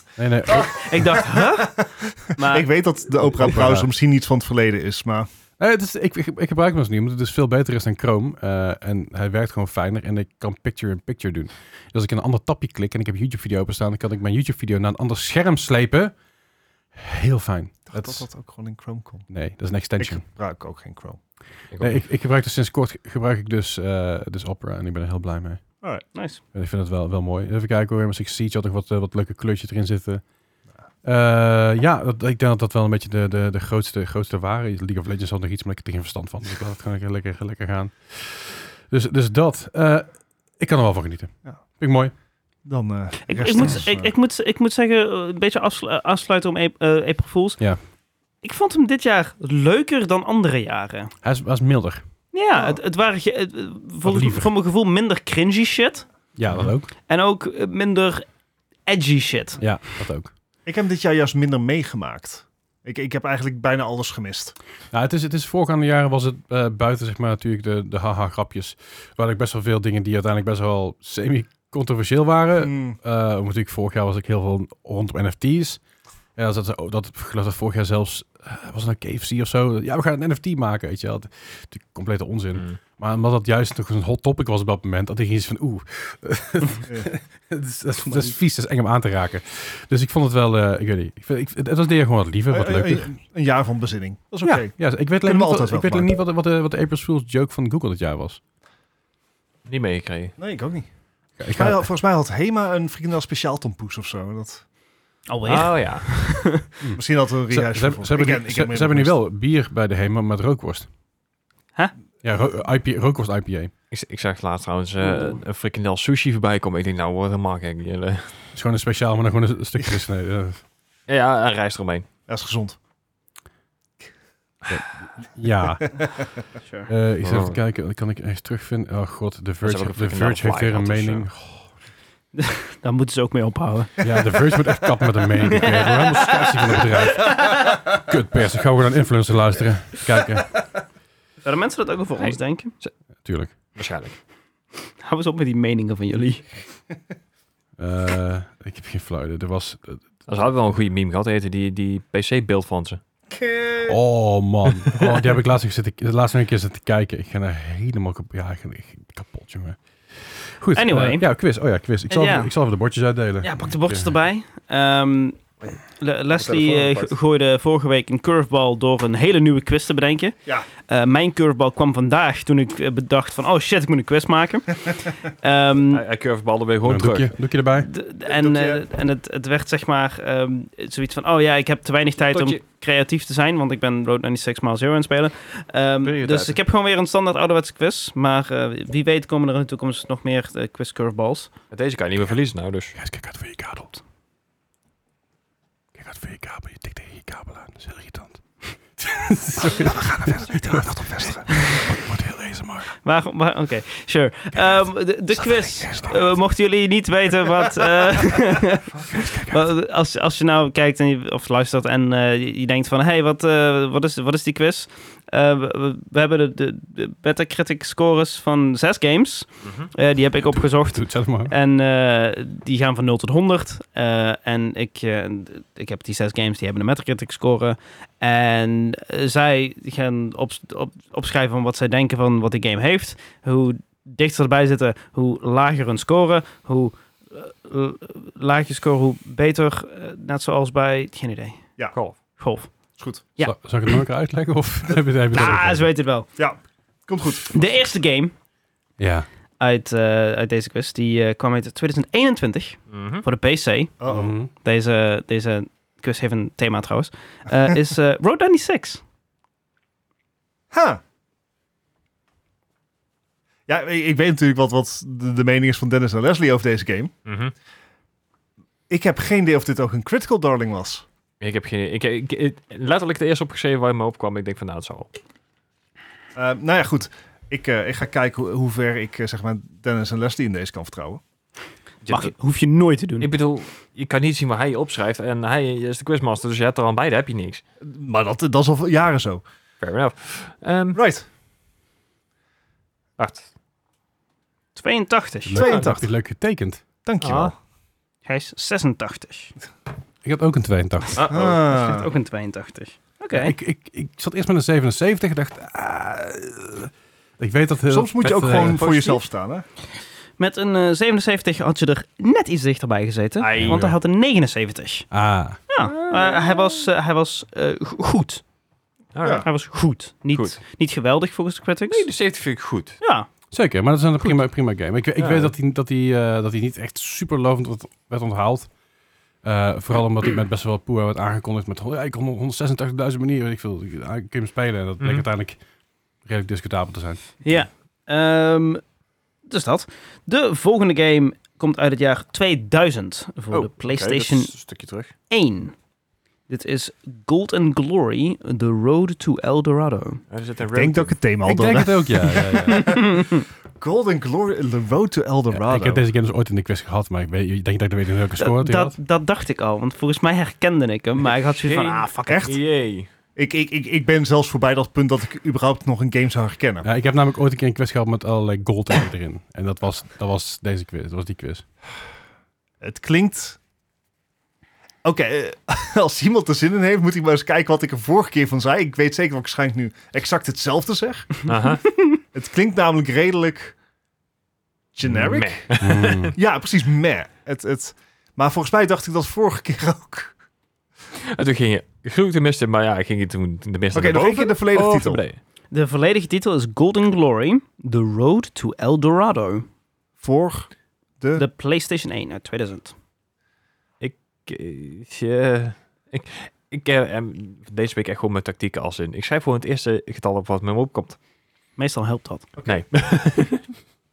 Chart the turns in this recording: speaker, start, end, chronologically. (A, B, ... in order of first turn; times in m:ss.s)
0:00.2-0:01.2 A
0:00.5-0:02.7 B
0:01.2-0:05.3 C
0:03.3-0:03.9 A
0:05.6-0:16.1 A
0:16.9-0:18.2 A
0:17.9-0:19.3 C
0:19.3-0:20.2 A
0:20.0-0:21.2 C
0:21.7-0:22.0 D
0:21.8-0:25.6 A
0:26.1-0:26.4 B
0:26.5-0:30.2 A
0:31.0-0:40.1 A
0:40.6-0:42.1 A
0:42.6-0:44.1 C
0:43.3-0:47.6 B
0:48.4-0:51.1 B
0:51.2-0:52.0 A
0:52.3-0:56.1 B
0:54.0-0:54.5 A
0:56.4-0:56.9 A
0:57.1-0:58.2 B
0:58.8-0:59.6 B
0:59.6-1:00.3 A
1:00.6-1:04.6 C
1:04.9-1:15.8 A
1:12.6-1:13.0 C
1:16.4-1:33.1 A
1:32.5-1:36.1 C
1:34.4-1:38.4 A
1:39.6-1:40.4 D
1:40.4-1:40.9 C
1:41.4-1:41.9 A
1:41.5-1:44.6 C
1:45.3-1:46.6 B
1:45.4-1:46.1 D
1:46.8-1:50.9 A
1:47.0-1:49.1 C
1:52.2-1:53.7 A
1:53.9-1:58.4 D
1:58.5-2:00.6 A
2:01.1-2:02.1 D
2:02.3-2:02.8 C
2:04.7-2:05.9 A
2:06.6-2:06.9 B
2:06.9-2:11.7 A
2:07.2-2:07.6 D
2:09.6-2:11.3 D
2:12.4-2:14.4 B
2:14.0-2:20.6 A
2:15.5-2:17.8 B
2:21.4-2:22.7 B
2:22.2-2:22.9 D
2:23.2-2:23.5 A
2:23.7-2:24.2 D
2:25.0-2:26.4 B
2:27.8-2:30.0 A
2:30.3-2:33.0 D
2:33.3-2:34.0 C
2:33.8-2:44.1 A
2:40.7-2:41.2 B
2:42.1-2:42.5 B
2:43.4-2:56.0 B
2:46.4-2:47.1 D
2:55.9-2:57.3 D
2:56.8-2:57.9 A
2:57.8-3:11.5 B
2:58.2-2:58.8 C
3:02.3-3:02.6 D
3:06.0-3:06.6 D
3:11.7-3:12.9 D
3:12.9-3:13.9 A
3:16.0-3:18.4 A
3:19.0-3:22.9 A
3:19.6-3:21.6 C
3:23.0-4:01.6 B
3:25.9-3:26.2 C
3:40.4-3:41.5 A
4:02.4-4:02.7 B
4:03.0-4:03.2 C
4:03.4-4:05.9 A
4:05.3-4:06.3 B
4:06.4-4:07.5 C
4:07.5-4:08.3 B
4:09.0-4:09.3 A
4:09.6-4:19.0 B
4:12.9-4:13.2 D
4:14.0-4:14.3 C
4:14.1-4:14.5 A
4:20.7-4:21.0 C
4:23.7-4:27.1 C
4:27.2-4:27.5 D
4:28.9-4:31.0 C
4:31.4-4:35.1 D
4:36.4-4:41.2 C
4:42.0-4:42.3 D
4:42.1-4:43.3 B
4:43.2-4:47.6 D
4:47.8-4:49.4 C
4:49.8-4:51.0 D
4:50.9-4:51.2 C
4:53.2-4:53.5 D
4:54.8-4:55.8 B
4:55.4-4:56.8 A
4:55.6-4:56.1 C
4:57.0-4:57.6 C
4:57.2-4:57.5 D
4:58.2-4:59.5 B
5:00.2-5:01.2 A
5:01.2-5:01.6 D
5:01.3-5:02.1 C
5:01.6-5:03.5 B
5:03.3-5:08.8 A
5:07.9-5:09.6 C
5:08.2-5:09.2 D
5:10.4-5:15.1 B
5:13.4-5:13.9 D
5:13.6-5:13.9 A
5:15.1-5:15.6 A
5:15.7-5:18.4 B
5:15.8-5:16.8 D
5:19.1-5:19.5 D
5:19.3-5:22.1 B
5:20.3-5:20.6 D
5:21.9-5:23.0 D
5:23.0-5:23.3 B
5:23.5-5:28.7 A
5:25.2-5:25.5 D
5:29.4-5:35.6 A
5:35.0-5:35.2 D
5:36.2-5:37.2 A
5:37.4-5:38.8 B
5:39.4-5:44.5 B
5:43.5-5:45.1 D
5:45.3-5:45.7 B
5:46.5-5:50.2 B
5:50.3-5:51.2 D
5:50.7-5:53.2 C
5:51.4-5:53.1 A
5:52.6-5:53.4 B
5:53.8-5:56.0 C
5:55.5-5:58.9 A
5:58.4-6:02.4 B
6:01.3-6:03.1 D
6:02.3-6:02.6 C
6:03.4-6:06.9 C
6:06.8-6:11.6 A
6:12.8-6:13.6 C
6:15.0-6:21.5 C
6:21.4-6:21.8 D
6:22.3-6:23.7 C
6:24.9-6:25.7 C
6:25.2-6:26.3 D
6:25.8-6:26.4 A
6:26.4-6:30.3 C
6:31.3-6:35.4 D
6:33.9-6:35.2 C
6:35.7-6:39.6 B
6:40.2-6:41.4 C
6:41.4-6:42.9 B
6:44.0-6:51.2 D
6:51.8-6:52.5 B
6:52.6-6:52.8 C
6:52.6-6:53.6 D